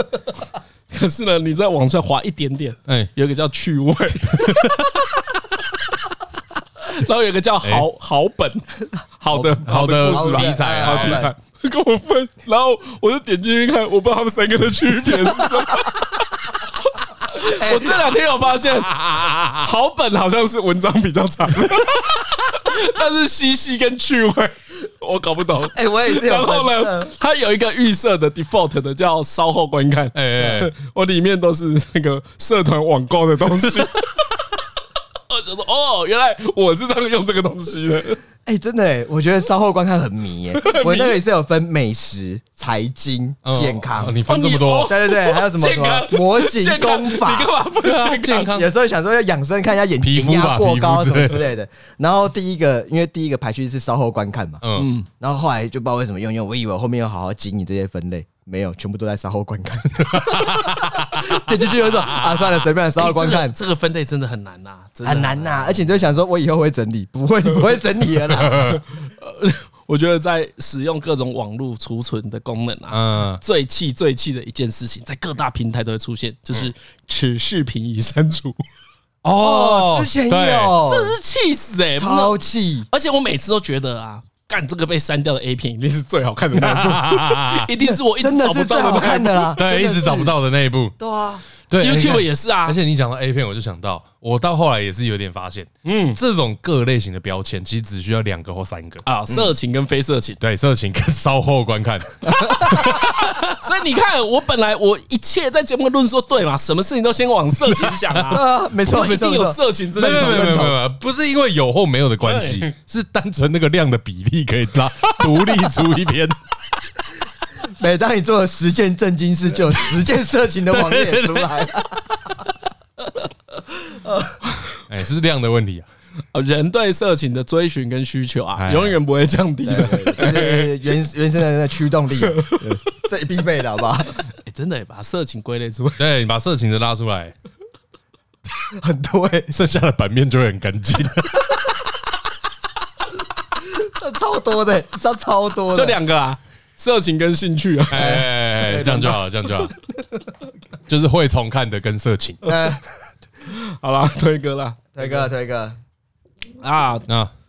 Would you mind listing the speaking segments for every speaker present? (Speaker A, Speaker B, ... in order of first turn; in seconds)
Speaker A: 0.9-4.9, 6.9-16.0, 17.3-34.1, 35.3-38.2, 40.6-41.2, 44.3-48.5, 54.8-55.1, 63.0-65.7, 69.0-78.6, 80.9-82.3, 82.9-89.6, 91.8-92.8, 95.8-96.2, 99.0-100.4, 102.5-110.7, 112.2-112.7, 126.3-130.7, 132.4-132.7, 134.4-136.0, 145.7-148.2, 152.5-152.7, 153.4-155.3, 156.6-157.1
Speaker B: 2.9-3.1, 4.3-4.7, 9.7-11.3, 18.9-19.5, 30.1-30.7, 43.5-44.9, 47.8-48.7, 50.0-51.4, 54.6-54.9, 60.1-62.6, 68.3-68.8, 72.9-73.4, 79.2-80.8, 86.5-87.7, 89.6-91.0, 91.7-99.0, 100.4-103.6, 110.0-116.4, 120.7-121.7, 124.9-125.9, 128.6-129.0, 136.0-137.3, 139.5-141.6, 147.9-149.7, 150.9-152.4
Speaker C: 9.3-11.3, 17.6-17.9, 25.7-27.1, 38.5-44.2, 44.9-47.5, 48.5-54.6, 55.2-63.6, 65.0-68.8, 79.3-81.2, 81.9-82.9, 88.2-90.3, 91.0-91.5, 102.4-102.8, 108.3-110.8, 117.7-122.0, 123.8-124.4, 129.6-134.2, 138.8-139.5, 143.6-146.0, 147.9-149.2, 152.4-153.1, 154.9-155.8